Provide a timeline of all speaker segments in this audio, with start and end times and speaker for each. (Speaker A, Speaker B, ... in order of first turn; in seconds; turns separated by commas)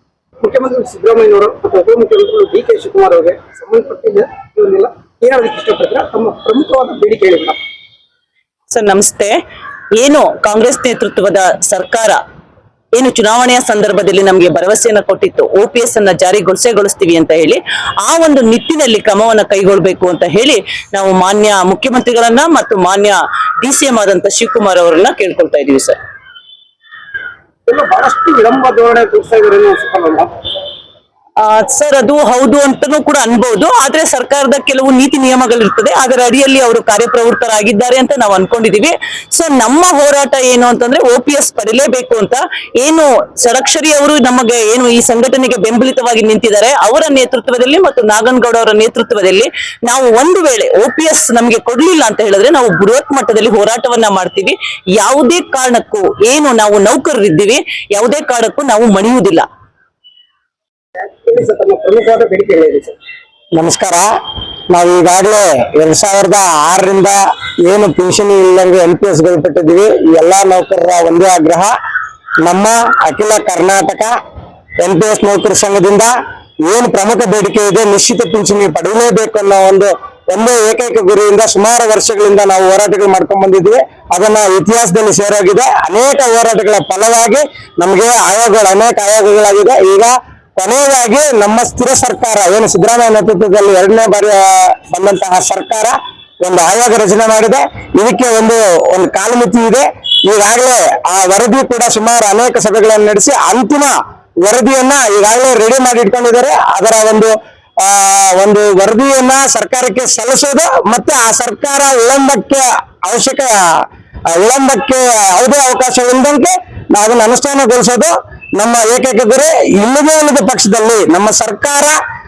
Speaker A: 0.4-7.6, Speaker B: 8.7-9.4, Speaker B: 10.0-12.2, Speaker B: 13.0-26.0, Speaker A: 27.7-30.3, Speaker B: 31.4-59.5, Speaker A: 61.0-63.0, Speaker C: 63.5-64.1, Speaker C: 64.7-71.7, Speaker C: 72.4-74.2, Speaker C: 74.8-76.1, Speaker C: 76.7-113.5, Speaker C: 114.3-122.0